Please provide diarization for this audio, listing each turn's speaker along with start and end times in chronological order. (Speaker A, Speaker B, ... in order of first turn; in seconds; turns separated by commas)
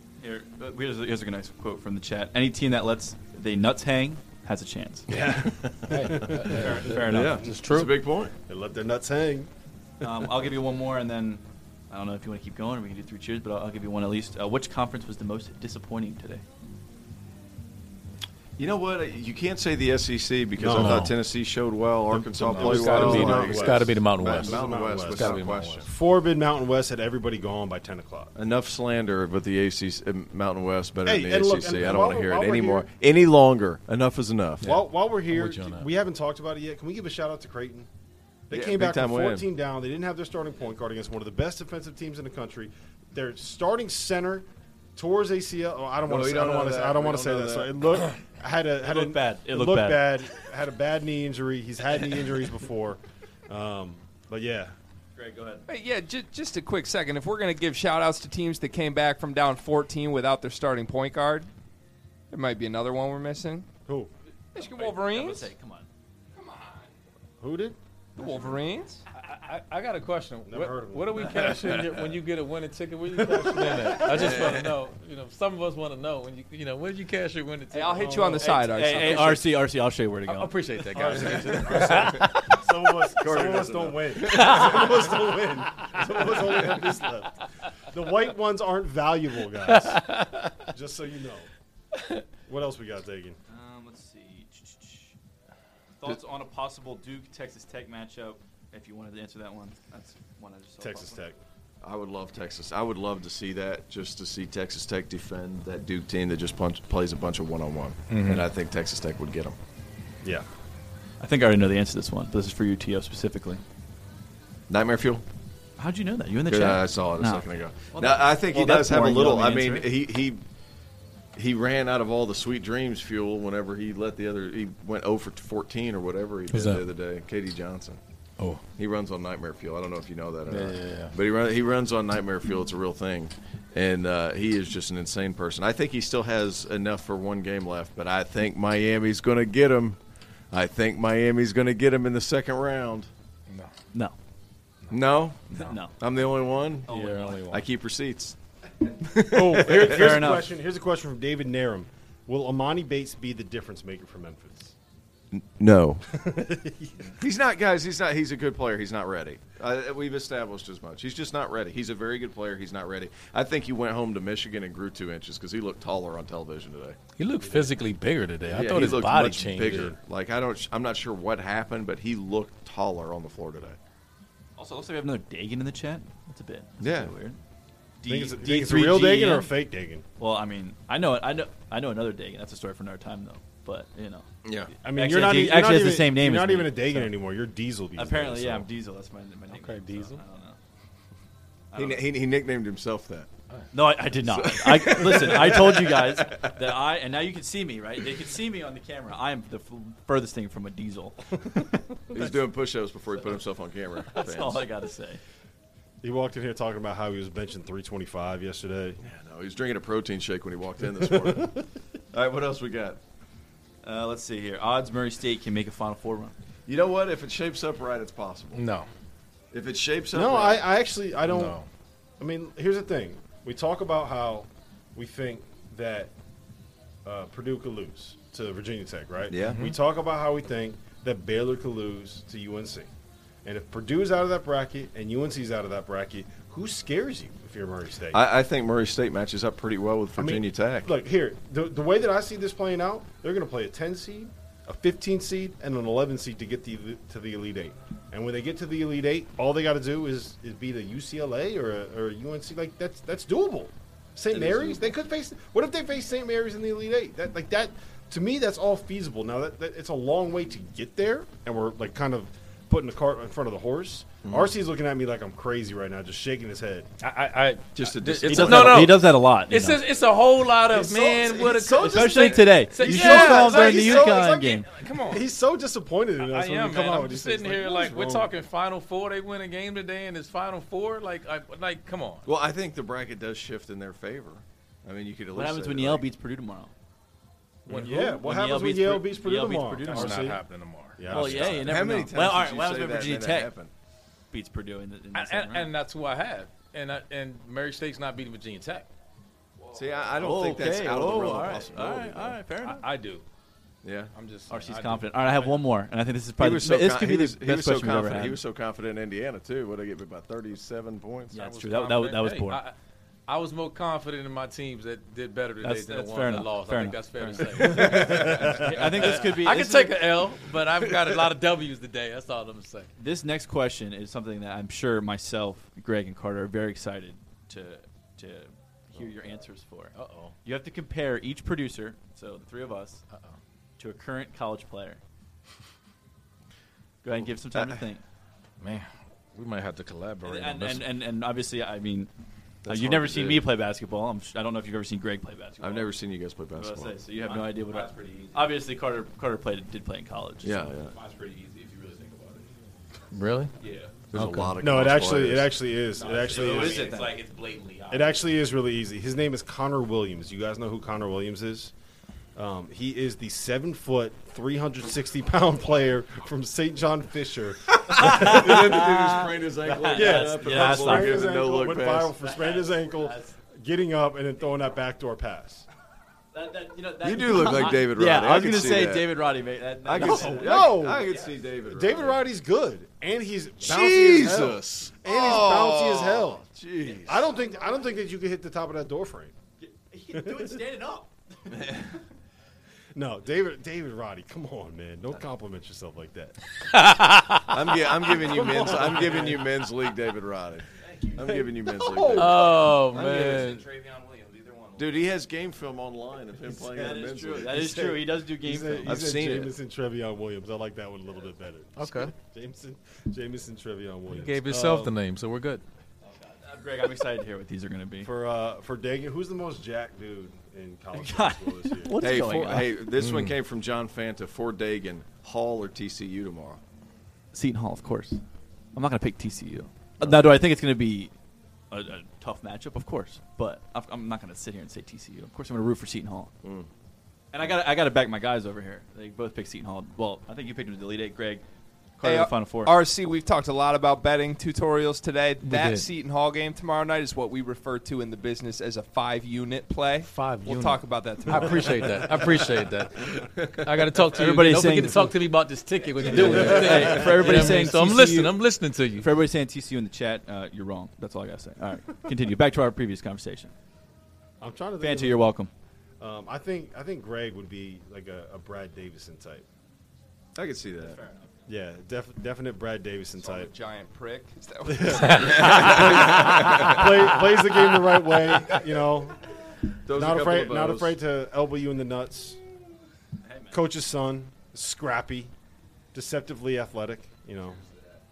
Speaker A: 0.2-5.1, Speaker B: 5.1-7.3, Speaker C: 5.9-8.0, Speaker A: 6.5-7.5, Speaker D: 7.0-8.3, Speaker B: 8.5-9.5, Speaker B: 10.0-10.4, Speaker A: 10.0-16.4, Speaker D: 18.6-25.9, Speaker B: 20.6-21.1, Speaker C: 20.7-21.1, Speaker C: 22.1-25.8, Speaker B: 22.6-28.3, Speaker D: 28.4-34.8, Speaker B: 31.1-32.9, Speaker C: 34.6-35.9, Speaker B: 34.6-37.9, Speaker B: 38.5-54.8, Speaker D: 38.5-39.5, Speaker D: 46.1-47.8, Speaker A: 48.8-50.1, Speaker A: 55.2-55.6, Speaker E: 55.7-61.5, Speaker E: 62.3-63.7, Speaker E: 64.5-65.5, Speaker A: 64.5-65.9, Speaker E: 66.4-66.9, Speaker B: 67.4-67.8, Speaker E: 68.2-69.0, Speaker C: 69.1-78.5, Speaker B: 70.5-71.8, Speaker B: 73.2-74.3, Speaker D: 74.0-74.8, Speaker E: 77.7-79.5, Speaker B: 78.0-78.5, Speaker A: 78.4-80.5, Speaker C: 80.3-82.5, Speaker B: 80.9-91.5, Speaker D: 83.2-84.7, Speaker C: 84.3-84.9, Speaker C: 89.7-90.6, Speaker B: 92.5-93.4, Speaker A: 93.5-95.2, Speaker A: 96.0-101.2, Speaker B: 100.8-101.4, Speaker D: 101.8-109.6, Speaker C: 108.1-108.4, Speaker A: 111.2-113.6, Speaker D: 114.7-115.2, Speaker A: 115.8-119.9, Speaker D: 116.5-120.4, Speaker D: 121.4-128.0, Speaker C: 126.5-126.8, Speaker D: 128.8-140.0, Speaker C: 130.5-131.1, Speaker D: 140.5-143.1, Speaker D: 144.9-146.9, Speaker A: 145.5-146.0, Speaker A: 146.9-147.5, Speaker C: 146.9-147.6, Speaker D: 147.5-148.4, Speaker D: 149.1-150.2, Speaker B: 149.3-154.8, Speaker A: 149.7-150.5, Speaker D: 155.3-156.1, Speaker B: 156.1-157.1, Speaker D: 157.2-167.0, Speaker C: 167.2-169.9, Speaker D: 168.5-173.8, Speaker B: 169.6-170.0, Speaker A: 174.6-177.4, Speaker D: 176.8-177.1, Speaker A: 178.0-179.5, Speaker B: 178.1-180.1, Speaker A: 180.2-184.3, Speaker D: 184.4-184.7, Speaker A: 184.8-187.1, Speaker B: 184.8-188.7, Speaker A: 188.0-190.6, Speaker C: 189.5-190.2, Speaker A: 191.7-192.0, Speaker D: 191.8-193.3, Speaker A: 193.7-202.4, Speaker D: 194.2-196.6, Speaker D: 202.1-204.7, Speaker A: 204.1-205.2, Speaker B: 206.0-209.0, Speaker D: 209.0-213.0, Speaker B: 211.0-211.6, Speaker A: 213.8-216.3, Speaker D: 216.7-218.6, Speaker C: 218.6-218.9, Speaker D: 219.5-220.7, Speaker B: 220.1-221.6, Speaker C: 221.3-221.7, Speaker B: 222.2-226.1, Speaker B: 227.1-232.9, Speaker D: 229.3-229.7, Speaker B: 233.4-238.2, Speaker D: 238.1-240.9, Speaker B: 240.2-266.9, Speaker D: 254.3-254.9, Speaker D: 264.2-264.5, Speaker C: 267.0-275.2, Speaker D: 267.8-269.0, Speaker A: 268.3-269.8, Speaker B: 270.7-278.3, Speaker A: 271.8-274.7, Speaker C: 276.2-282.2, Speaker D: 282.3-286.1, Speaker A: 285.3-286.7, Speaker C: 287.7-288.0, Speaker B: 287.7-290.4, Speaker A: 287.7-290.4, Speaker C: 289.8-291.6, Speaker B: 291.0-291.7, Speaker A: 291.1-293.5, Speaker D: 291.2-293.7, Speaker A: 294.3-295.7, Speaker C: 295.1-298.9, Speaker F: 299.6-300.4, Speaker D: 299.7-302.4, Speaker A: 300.1-302.9, Speaker C: 302.6-303.2, Speaker D: 303.8-304.1, Speaker C: 304.1-305.6, Speaker A: 304.5-308.4, Speaker D: 306.4-311.4, Speaker A: 311.3-312.6, Speaker C: 311.4-312.7, Speaker C: 313.3-322.9, Speaker A: 315.6-320.0, Speaker B: 317.8-318.7, Speaker A: 323.0-333.1, Speaker C: 329.9-330.4, Speaker C: 333.1-333.4, Speaker A: 333.8-335.0, Speaker A: 337.0-338.0, Speaker D: 337.5-337.8, Speaker C: 338.6-340.9, Speaker A: 340.2-342.1, Speaker D: 342.6-343.5, Speaker A: 342.6-345.9, Speaker D: 345.6-347.0, Speaker A: 346.6-350.7, Speaker F: 347.2-348.6, Speaker D: 350.4-350.9, Speaker F: 350.9-352.5, Speaker C: 353.1-353.5, Speaker F: 353.6-353.9, Speaker D: 354.1-355.6, Speaker C: 354.1-354.5, Speaker B: 354.6-357.0, Speaker F: 355.9-358.3, Speaker A: 356.3-357.2, Speaker B: 357.9-361.7, Speaker B: 362.4-368.9, Speaker A: 367.8-371.4, Speaker D: 368.0-372.1, Speaker B: 369.9-375.7, Speaker A: 372.2-373.4, Speaker A: 376.3-381.3, Speaker D: 377.0-379.2, Speaker D: 379.8-382.2, Speaker B: 380.0-386.4, Speaker D: 383.6-387.3, Speaker B: 387.0-389.4, Speaker A: 389.6-391.9, Speaker B: 390.1-390.6, Speaker D: 391.5-391.9, Speaker B: 392.9-396.4, Speaker C: 396.6-397.5, Speaker D: 397.5-403.6, Speaker B: 398.1-399.5, Speaker B: 401.2-402.5, Speaker C: 402.2-403.6, Speaker F: 403.1-405.2, Speaker D: 404.8-407.8, Speaker B: 406.5-406.9, Speaker A: 406.7-409.0, Speaker B: 407.4-414.9, Speaker D: 408.9-409.6, Speaker C: 411.8-412.1, Speaker C: 414.1-415.6, Speaker A: 416.3-418.1, Speaker B: 418.0-422.0, Speaker A: 420.9-422.8, Speaker D: 422.0-426.6, Speaker C: 423.0-423.3, Speaker A: 427.3-431.1, Speaker D: 430.0-430.4, Speaker A: 431.7-436.3, Speaker D: 436.4-436.7, Speaker A: 437.3-441.4, Speaker A: 442.0-442.7, Speaker E: 442.0-452.1, Speaker C: 445.4-445.9, Speaker C: 450.0-459.1, Speaker B: 452.0-452.5, Speaker D: 453.0-453.7, Speaker A: 454.1-455.2, Speaker A: 456.1-458.4, Speaker B: 456.1-457.5, Speaker D: 456.3-456.8, Speaker A: 458.9-463.5, Speaker B: 464.4-465.3, Speaker A: 464.8-465.5, Speaker B: 466.0-469.5, Speaker D: 470.4-471.0, Speaker B: 471.5-473.5, Speaker E: 473.2-475.5, Speaker B: 474.7-479.2, Speaker C: 474.9-475.6, Speaker D: 475.2-476.9, Speaker D: 479.9-481.0, Speaker B: 479.9-482.4, Speaker A: 483.2-483.6, Speaker B: 483.5-485.3, Speaker B: 485.9-487.6, Speaker F: 487.6-488.0